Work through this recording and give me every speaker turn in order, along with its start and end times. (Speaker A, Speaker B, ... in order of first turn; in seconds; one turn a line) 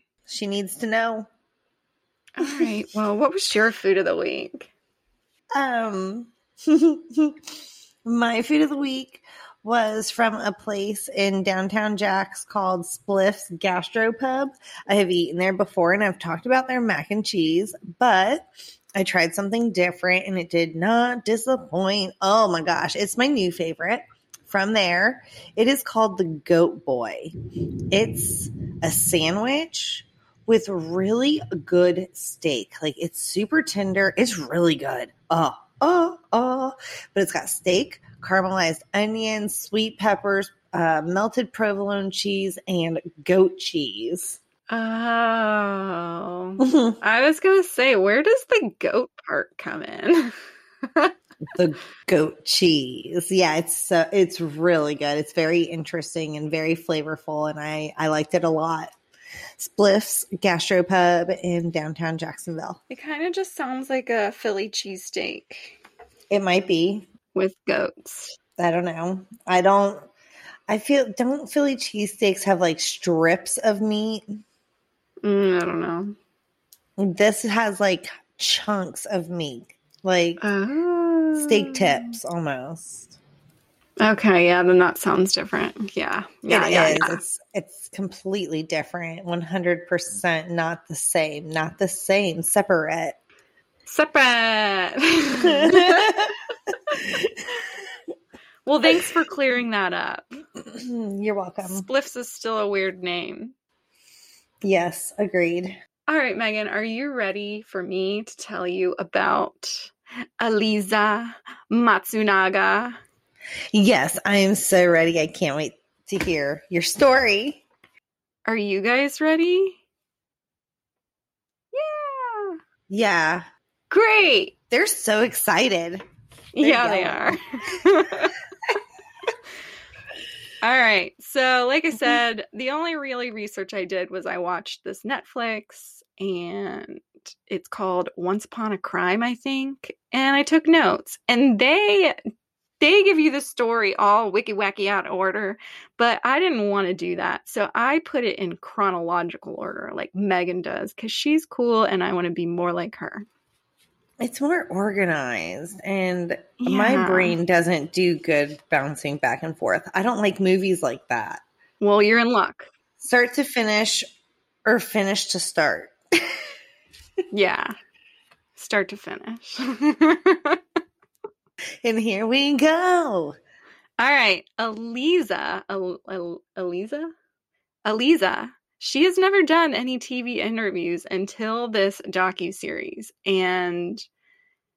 Speaker A: 0.3-1.3
Speaker B: 2.4-4.7
Speaker A: 2.4-2.7
Speaker A: 5.5-27.3
Speaker A: 27.9-44.4
Speaker B: 44.7-50.3
Speaker A: 46.6-47.0
Speaker A: 51.5-58.9
Speaker A: 59.6-62.8
Speaker B: 62.9-65.8
Speaker A: 66.3-67.0
Speaker B: 67.3-68.3
Speaker A: 68.6-70.1
Speaker A: 70.7-74.4
Speaker B: 75.2-76.1
Speaker A: 77.0-80.4
Speaker B: 80.4-82.1
Speaker A: 81.3-83.2
Speaker B: 84.0-87.2
Speaker A: 86.5-93.2
Speaker B: 93.8-96.1
Speaker A: 95.4-97.6
Speaker B: 98.6-100.3
Speaker A: 100.6-101.8
Speaker B: 101.6-103.5
Speaker A: 104.6-105.7
Speaker B: 106.1-113.0
Speaker A: 113.7-117.6
Speaker B: 118.5-119.8
Speaker B: 121.7-122.6
Speaker A: 122.9-123.5
Speaker B: 123.9-124.5
Speaker A: 124.7-126.0
Speaker B: 126.5-128.4
Speaker A: 126.6-127.3
Speaker B: 130.6-142.2
Speaker B: 142.8-153.3
Speaker A: 154.2-161.4
Speaker B: 156.6-157.4
Speaker B: 161.8-162.7
Speaker A: 163.0-164.1
Speaker A: 164.6-165.9
Speaker B: 167.3-167.7
Speaker B: 168.6-170.6
Speaker A: 171.8-173.4
Speaker B: 174.0-177.1
Speaker B: 177.8-184.1